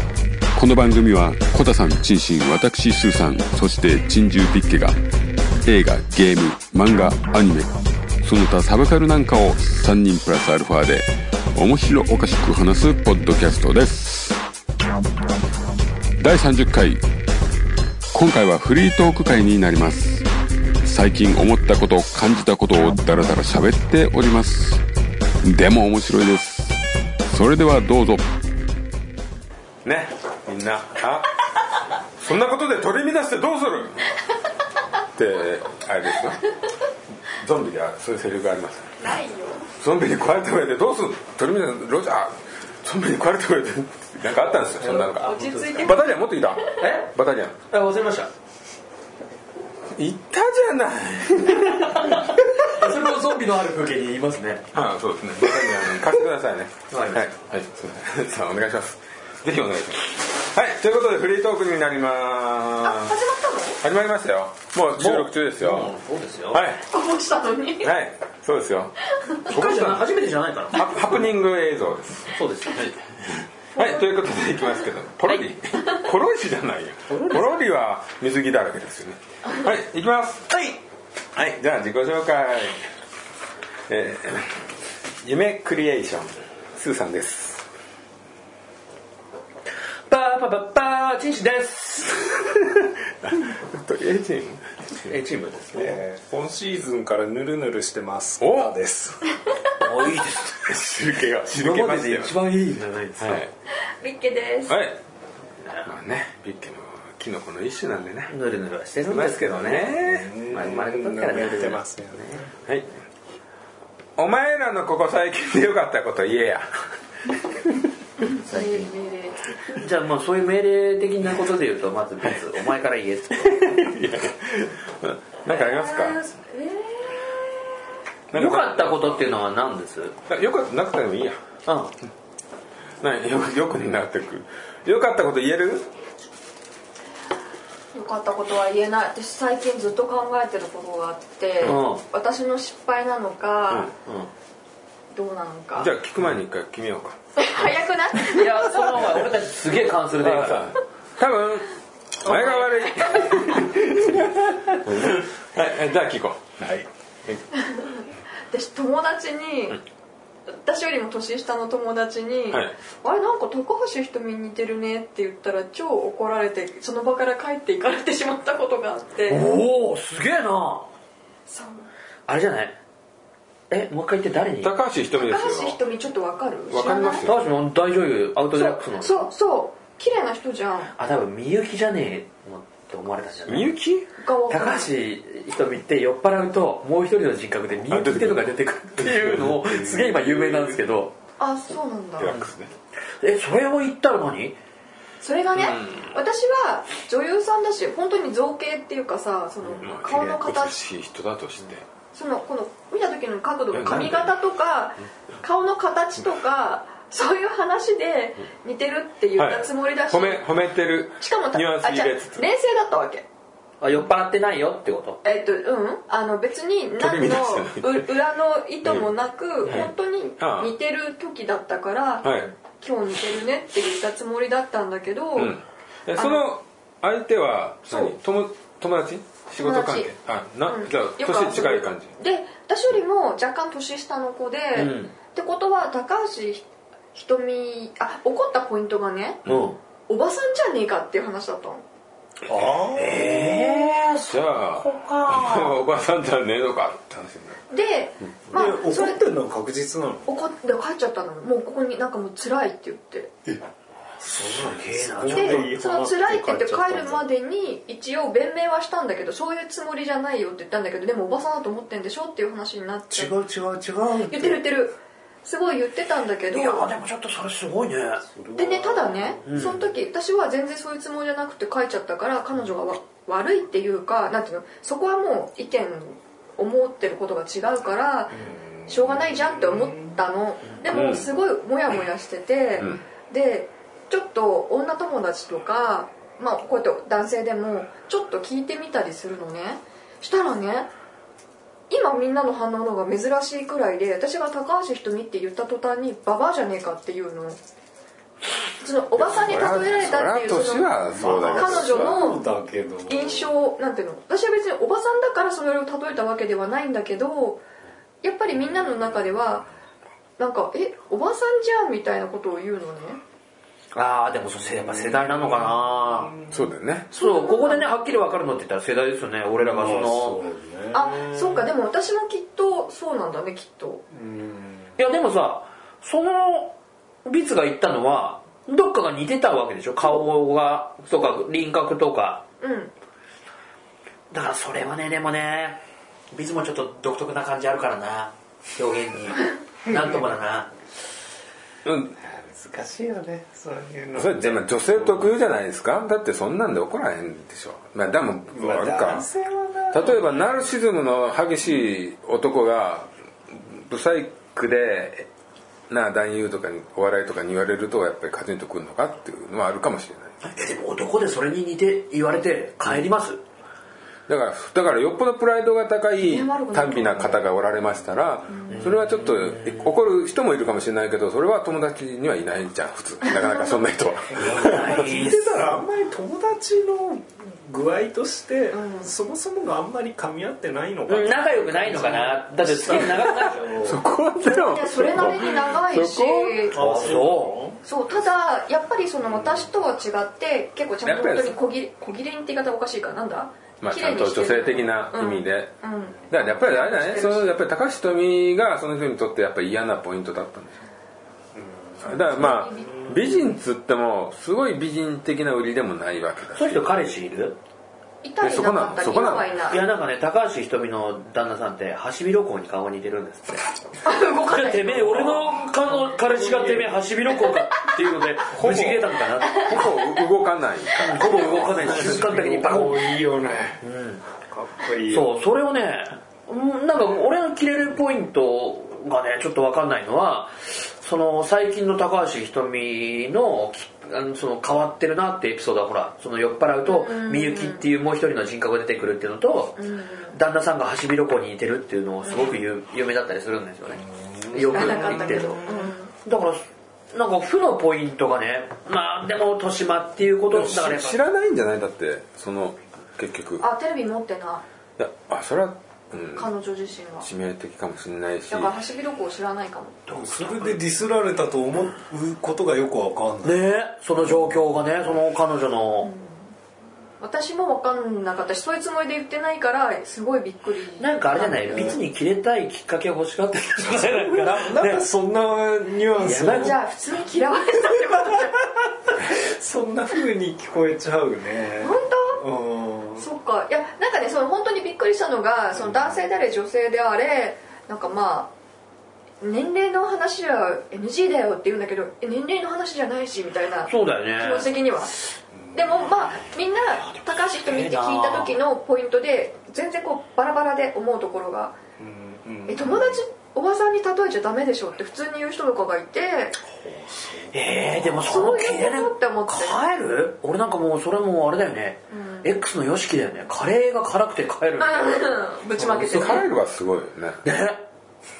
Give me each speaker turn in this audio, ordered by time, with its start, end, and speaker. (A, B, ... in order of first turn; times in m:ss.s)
0:00.5-0:05.0 A
0:05.6-0:14.4 A
0:16.2-0:17.0 A
0:18.1-0:20.3 A
0:20.8-0:24.8 A
0:25.4-0:28.3 A
0:29.8-0:31.4 B
0:32.1-0:34.1 B
0:35.1-0:36.4 B
0:37.3-0:39.0 B
0:39.0-0:39.7 C
0:39.8-0:47.6 B
0:44.8-0:46.0 D
0:45.2-0:46.8 C
0:46.8-0:47.1 D
0:47.7-0:48.3 D
0:49.9-0:52.2 B
0:51.9-0:54.7 D
0:54.7-1:03.2 B
0:56.9-0:57.3 D
1:02.8-1:03.8 C
1:03.8-1:05.9 B
1:05.0-1:06.6 D
1:06.5-1:06.8 B
1:06.8-1:07.9 C
1:07.8-1:10.1 B
1:09.5-1:11.1 D
1:10.7-1:20.6 B
1:12.3-1:12.8 D
1:17.1-1:17.6 D
1:21.3-1:22.8 B
1:23.9-1:24.7 B
1:25.2-1:27.7 B
1:30.1-1:32.4 D
1:32.8-1:34.6 B
1:35.0-1:36.0 D
1:35.8-1:39.3 E
1:38.4-1:38.7 B
1:39.8-1:40.6 D
1:40.5-1:42.4 B
1:41.5-1:43.4 D
1:43.2-1:43.5 B
1:43.8-1:44.8 C
1:44.7-1:45.0 B
1:45.6-1:45.9 D
1:45.8-1:48.3 B
1:48.3-1:52.5 D
1:49.0-1:50.4 B
1:50.0-1:52.5 E
1:54.2-1:56.8 B
1:58.4-1:58.9 D
1:58.4-1:59.4 C
1:59.8-2:03.7 D
2:03.5-2:06.2 B
2:05.5-2:07.7 C
2:08.3-2:09.3 B
2:08.3-2:10.1 D
2:10.3-2:11.4 B
2:11.6-2:11.9 D
2:13.0-2:15.9 B
2:17.9-2:23.9 C
2:21.6-2:22.0 D
2:24.0-2:24.3 D
2:25.1-2:25.9 C
2:25.8-2:27.2 B
2:27.4-2:29.1 C
2:28.3-2:30.7 D
2:30.2-2:31.7 B
2:32.2-2:34.2 B
2:32.2-2:32.7 D
2:33.1-2:33.4 C
2:34.8-2:36.6 B
2:37.5-2:39.8 C
2:40.5-2:49.4 C
2:49.3-2:50.9 D
2:51.5-2:51.9 C
2:52.3-2:52.8 D
2:53.7-2:54.7 D
2:54.6-2:55.8 B
2:55.2-2:57.2 C
2:56.7-2:57.4 B
2:57.2-2:59.3 D
2:58.5-3:00.9 C
3:01.0-3:03.8 D
3:03.5-3:04.1 B
3:04.2-3:04.9 C
3:04.5-3:11.1 D
3:07.9-3:10.8 B
3:11.4-3:12.3 C
3:12.2-3:12.7 B
3:13.2-3:14.6 D
3:15.2-3:20.8 C
3:15.6-3:15.9 B
3:19.8-3:21.8 B
3:22.1-3:30.5 C
3:23.7-3:24.3 B
3:29.4-3:32.4 B
3:31.2-3:33.2 C
3:33.8-3:35.2 D
3:35.2-3:45.6 C
3:37.0-3:38.0 B
3:39.6-3:40.7 B
3:42.2-3:42.5 B
3:45.3-3:52.1 B
3:46.1-3:46.5 C
3:47.9-3:48.1 C
3:49.6-3:50.1 C
3:50.6-3:59.4 C
3:54.7-3:55.1 D
3:59.4-3:59.7 B
3:59.5-3:59.8 D
4:00.1-4:01.8 C
4:02.5-4:03.9 E
4:02.5-4:05.8 D
4:04.3-4:07.6 B
4:07.7-4:09.2 C
4:08.5-4:10.3 E
4:10.3-4:13.3 C
4:14.2-4:15.7 D
4:14.3-4:17.2 E
4:15.3-4:23.3 C
4:23.1-4:24.6 E
4:24.3-4:26.9 C
4:26.5-4:28.2 D
4:28.2-4:29.4 E
4:28.6-4:50.9 C
4:29.4-4:29.8 D
4:38.3-4:40.2 E
4:40.9-4:41.2 B
4:51.9-4:57.6 C
4:58.8-5:02.4 C
4:59.2-5:02.2 B
5:01.2-5:03.5 E
5:03.1-5:07.6 C
5:08.2-5:09.7 C
5:10.4-5:13.2 C
5:13.9-5:16.4 D
5:14.6-5:16.6 E
5:16.5-5:17.1 B
5:17.1-5:20.4 D
5:17.2-5:18.0 C
5:19.6-5:21.7 E
5:20.9-5:24.0 C
5:24.1-5:24.9 E
5:25.0-5:32.4 D
5:32.6-5:32.9 C
5:34.3-5:40.7 D
5:39.9-5:40.2 E
5:41.8-5:42.2 B
5:42.2-5:45.3 E
5:44.1-5:49.3 B
5:48.5-5:50.2 E
5:49.9-5:55.3 B
5:55.9-6:00.4 B
6:00.4-6:03.4 D
6:04.3-6:15.1 B
6:06.2-6:07.4 C
6:08.5-6:08.9 C
6:08.7-6:10.0 D
6:13.2-6:13.8 C
6:14.3-6:15.8 D
6:14.4-6:24.0 E
6:18.7-6:19.1 C
6:21.1-6:23.8 D
6:23.8-6:26.7 B
6:24.4-6:27.0 C
6:26.7-6:27.8 E
6:26.7-6:27.6 D
6:27.8-6:37.6 C
6:29.3-6:29.7 E
6:31.0-6:31.6 B
6:33.8-6:40.8 B
6:41.5-6:42.1 E
6:42.0-6:47.0 B
6:42.0-6:43.5 C
6:46.5-6:47.6 D
6:48.2-6:49.8 C
6:48.4-6:49.5 B
6:49.7-6:53.7 D
6:54.0-6:55.5 C
6:54.5-6:59.9 D
6:55.0-6:56.9 E
6:58.5-7:02.1 B
6:59.8-7:00.1 C
7:01.0-7:03.2 D
7:01.7-7:03.8 E
7:03.8-7:04.2 D
7:04.4-7:05.3 E
7:05.1-7:19.8 D
7:16.8-7:17.8 C
7:19.8-7:20.4 C
7:20.3-7:25.6 D
7:22.3-7:22.6 C
7:23.9-7:25.9 E
7:24.6-7:26.1 C
7:26.2-7:31.2 D
7:30.5-7:33.6 B
7:33.6-7:34.6 C
7:35.0-7:36.5 B
7:36.3-7:37.3 C
7:37.2-7:38.7 B
7:38.5-7:40.0 C
7:40.1-7:40.8 D
7:40.1-7:43.6 E
7:43.4-7:46.1 D
7:46.0-7:46.5 C
7:47.2-7:52.0 C
7:51.0-7:55.0 D
7:53.9-7:56.8 E
7:56.2-7:56.8 D
7:56.4-7:58.7 C
7:58.2-8:03.2 E
8:01.8-8:02.4 C
8:03.2-8:08.5 C
8:05.8-8:06.1 E
8:09.4-8:21.8 C
8:13.9-8:14.7 D
8:15.5-8:16.3 E
8:17.0-8:18.5 D
8:22.0-8:23.2 E
8:22.7-8:26.6 C
8:26.7-8:28.0 E
8:27.5-8:35.2 D
8:28.2-8:29.8 C
8:32.1-8:32.5 C
8:34.8-8:36.4 C
8:36.0-8:37.4 B
8:37.4-8:37.8 D